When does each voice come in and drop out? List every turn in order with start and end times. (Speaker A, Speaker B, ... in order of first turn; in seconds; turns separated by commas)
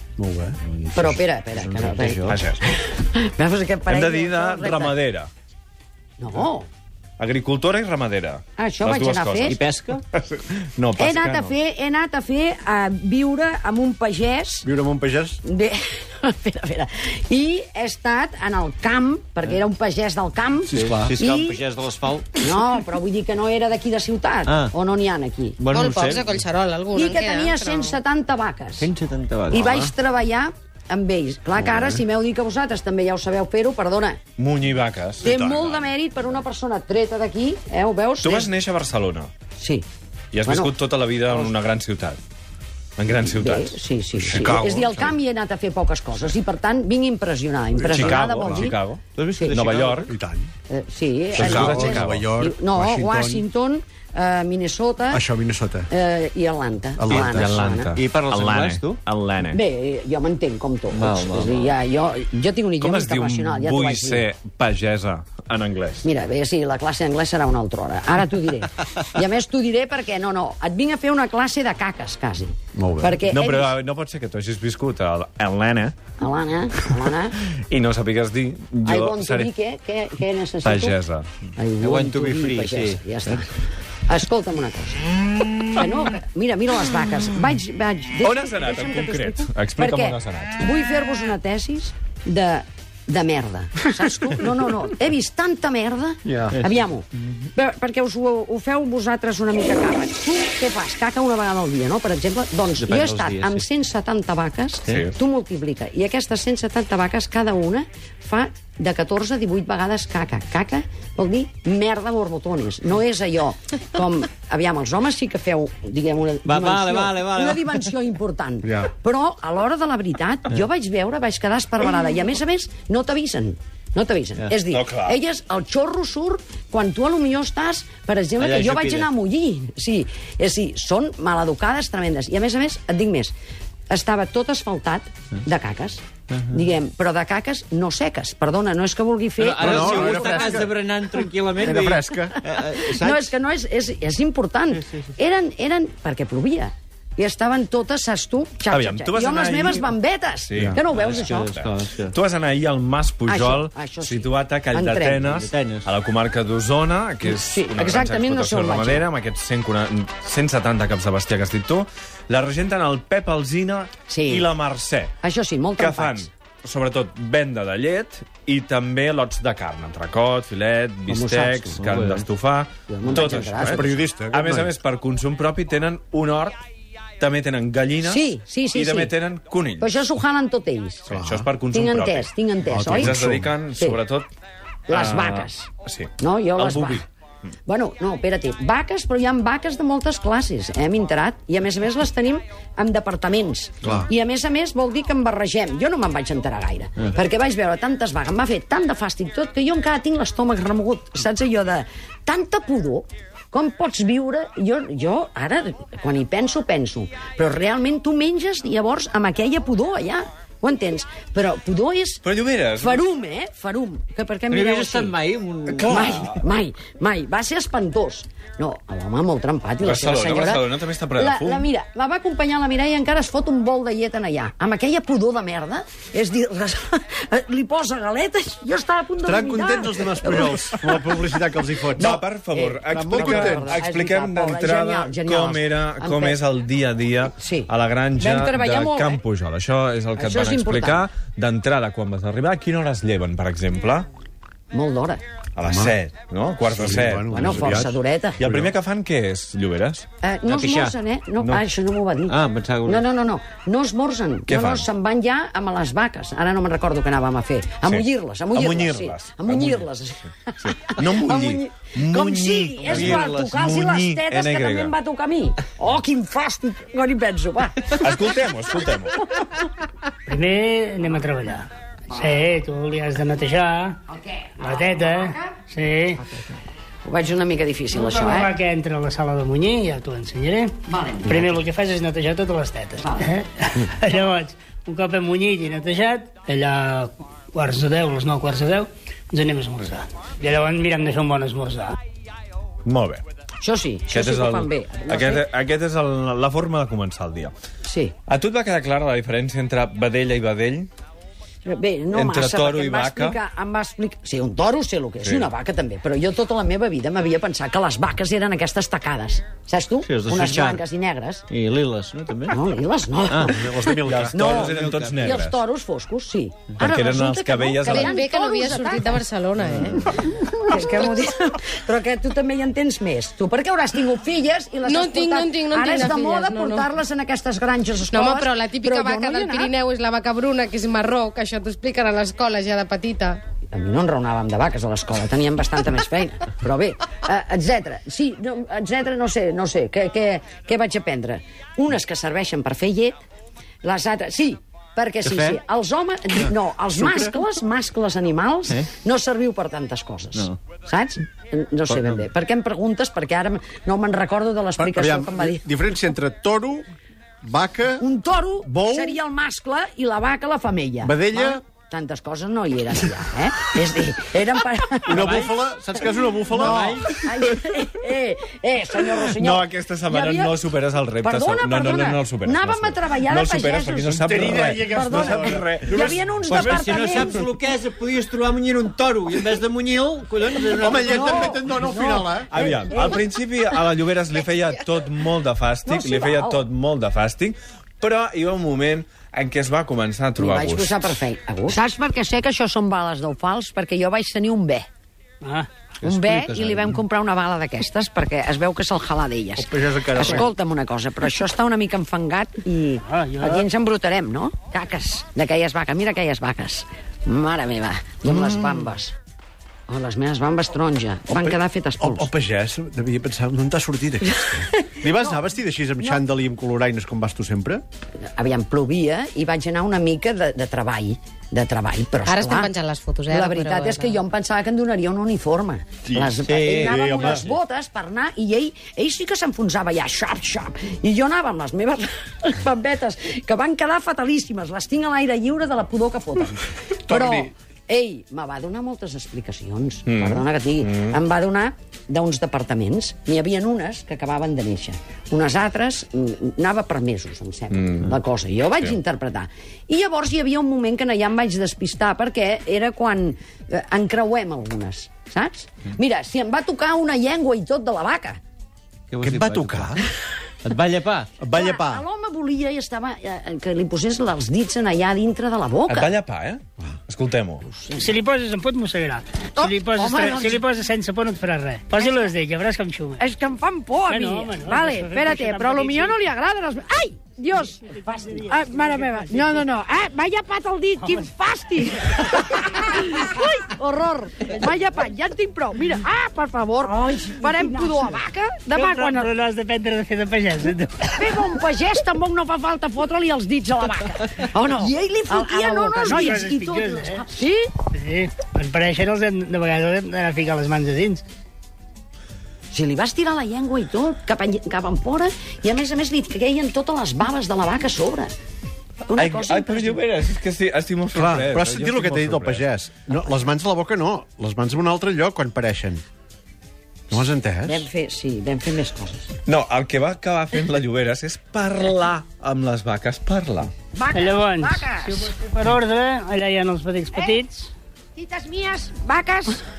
Speaker A: 0.2-0.6, Speaker B: 0.9-2.4, Speaker C: 0.9-4.9, Speaker D: 2.3-2.6, Speaker D: 3.9-5.3, Speaker C: 6.2-6.7, Speaker D: 7.2-9.6, Speaker C: 8.6-9.6, Speaker B: 9.4-10.0, Speaker D: 10.1-11.5, Speaker C: 11.0-14.7, Speaker A: 14.6-15.4, Speaker C: 15.4-21.6, Speaker A: 20.7-21.1, Speaker B: 20.7-22.5, Speaker C: 22.4-25.6, Speaker B: 24.4-24.7, Speaker B: 25.6-26.4, Speaker E: 25.7-28.0, Speaker C: 26.9-28.9, Speaker B: 28.8-29.9, Speaker C: 29.5-34.2, Speaker D: 34.4-35.2, Speaker A: 35.2-35.9, Speaker C: 35.2-38.5, Speaker D: 38.2-39.3, Speaker C: 39.6-39.9, Speaker D: 40.3-42.2, Speaker C: 40.4-40.7, Speaker D: 43.0-43.8, Speaker C: 43.2-48.8, Speaker A: 44.1-45.2, Speaker A: 47.8-48.7, Speaker D: 47.9-50.1, Speaker B: 49.1-50.1, Speaker A: 50.1-50.5, Speaker C: 50.7-55.2, Speaker A: 51.3-53.4, Speaker D: 51.4-52.3, Speaker A: 55.1-55.9, Speaker C: 55.9-57.9, Speaker A: 57.0-57.6, Speaker D: 57.1-59.6, Speaker B: 57.9-59.0, Speaker C: 59.5-64.2, Speaker B: 60.9-61.7, Speaker D: 62.8-66.0, Speaker C: 66.0-73.7, Speaker A: 72.7-73.2, Speaker D: 73.2-75.9, Speaker C: 76.2-77.4, Speaker D: 77.7-79.5, Speaker C: 78.8-81.0, Speaker D: 80.6-81.3, Speaker C: 81.6-83.5, Speaker B: 81.8-83.4, Speaker C: 84.1-85.0, Speaker C: 85.7-133.3, Speaker D: 88.2-90.5, Speaker B: 96.3-96.8, Speaker B: 102.8-103.7, Speaker B: 104.8-105.1, Speaker D: 104.9-105.1, Speaker B: 116.4-117.8, Speaker A: 118.6-118.9, Speaker D: 124.7-125.2, Speaker B: 128.4-129.1, Speaker C: 133.9-140.6, Speaker B: 139.4-143.3, Speaker A: 139.6-140.8, Speaker A: 141.5-142.4, Speaker C: 142.5-151.5, Speaker D: 148.7-149.9, Speaker D: 150.5-150.8, Speaker B: 150.8-152.1, Speaker D: 151.5-165.1, Speaker C: 153.3-155.4, Speaker B: 155.2-155.9, Speaker C: 157.2-159.0, Speaker C: 164.1-164.5, Speaker C: 165.2-166.3, Speaker D: 165.8-176.6, Speaker C: 171.1-171.8, Speaker B: 171.8-172.2, Speaker C: 172.9-174.0, Speaker A: 173.5-174.7, Speaker D: 177.2-179.9, Speaker C: 178.0-179.1, Speaker C: 179.8-183.2, Speaker A: 181.1-181.4, Speaker D: 181.1-182.3, Speaker A: 182.7-183.5, Speaker D: 182.8-184.3, Speaker C: 184.9-185.7, Speaker D: 184.9-187.0, Speaker C: 186.2-187.1, Speaker C: 187.7-212.2, Speaker D: 212.2-213.0, Speaker C: 212.8-215.2, Speaker B: 214.5-216.1, Speaker D: 215.7-216.4, Speaker C: 215.8-231.2, Speaker D: 219.8-221.7, Speaker A: 229.2-232.2, Speaker C: 231.9-236.4, Speaker D: 232.0-244.1, Speaker A: 232.8-233.8, Speaker C: 237.4-239.2, Speaker C: 240.2-241.1, Speaker C: 244.7-245.2, Speaker D: 245.6-247.3, Speaker A: 245.6-245.9, Speaker A: 246.7-248.7, Speaker C: 247.2-248.4, Speaker D: 248.4-250.1, Speaker C: 250.2-268.0, Speaker B: 250.4-250.9, Speaker D: 251.4-251.6, Speaker B: 252.3-253.1, Speaker D: 254.5-254.8, Speaker D: 257.9-259.9, Speaker D: 260.6-264.9, Speaker B: 262.8-263.5, Speaker D: 268.0-269.2, Speaker F: 270.3-274.0, Speaker C: 274.1-275.5, Speaker F: 274.6-276.2, Speaker C: 277.0-278.5, Speaker F: 277.9-280.7, Speaker C: 280.9-281.6, Speaker F: 281.2-291.9, Speaker D: 292.8-293.2, Speaker C: 293.6-295.4, Speaker D: 294.1-297.5, Speaker C: 297.8-298.1, Speaker D: 298.3-300.9, Speaker C: 301.6-311.4, Speaker D: 302.1-303.4, Speaker D: 305.2-305.5, Speaker B: 310.1-310.8, Speaker B: 311.5-312.5, Speaker C: 312.5-319.2, Speaker B: 313.3-313.6, Speaker A: 313.4-314.7, Speaker D: 314.1-315.6, Speaker B: 314.5-315.4, Speaker D: 316.8-318.1, Speaker E: 317.9-321.2, Speaker D: 319.6-319.9, Speaker C: 320.5-329.7, Speaker E: 324.8-326.9, Speaker E: 328.1-333.4, Speaker C: 333.7-343.2, Speaker C: 343.8-355.6, Speaker A: 354.8-356.9, Speaker A: 357.4-358.0, Speaker C: 358.0-365.3, Speaker A: 358.6-359.2, Speaker A: 361.0-361.6, Speaker A: 365.1-367.0, Speaker B: 365.1-365.6, Speaker B: 366.5-367.2, Speaker C: 366.6-370.5, Speaker D: 369.3-376.0, Speaker C: 371.2-377.4, Speaker A: 374.1-377.3, Speaker B: 376.5-381.6, Speaker A: 380.8-382.5, Speaker C: 381.0-383.2, Speaker D: 382.5-391.0, Speaker C: 385.9-386.6, Speaker C: 390.4-394.9, Speaker F: 395.4-395.7, Speaker B: 396.0-397.0, Speaker C: 396.0-409.1, Speaker A: 399.7-400.3, Speaker B: 399.8-400.4, Speaker F: 403.0-403.6, Speaker A: 408.2-408.9, Speaker C: 409.9-412.3, Speaker A: 411.3-417.8, Speaker C: 414.4-415.0, Speaker C: 418.3-422.7, Speaker E: 422.2-424.2, Speaker C: 423.3-458.4, Speaker A: 426.0-427.4, Speaker B: 426.4-427.4, Speaker A: 437.1-437.5, Speaker D: 440.1-441.2, Speaker B: 459.1-459.9, Speaker A: 459.2-460.0, Speaker B: 460.6-461.3, Speaker A: 461.4-462.0, Speaker C: 461.5-466.1, Speaker D: 465.9-467.6, Speaker C: 467.6-468.1, Speaker F: 467.9-473.2, Speaker C: 469.6-470.6, Speaker C: 472.0-472.3, Speaker C: 473.2-489.3, Speaker F: 474.1-476.2, Speaker F: 477.7-479.7, Speaker F: 481.0-481.3, Speaker F: 482.1-482.4, Speaker F: 486.8-488.1, Speaker F: 488.7-491.4, Speaker C: 491.2-497.7, Speaker B: 494.9-496.2, Speaker F: 495.2-497.2, Speaker F: 497.9-501.2, Speaker C: 502.7-508.3, Speaker C: 509.1-510.0, Speaker D: 509.1-512.6, Speaker A: 511.1-516.0, Speaker A: 517.1-517.9, Speaker C: 517.6-519.3, Speaker D: 519.5-523.7, Speaker C: 523.9-525.3, Speaker F: 524.1-527.7, Speaker C: 527.1-527.4, Speaker C: 528.1-529.6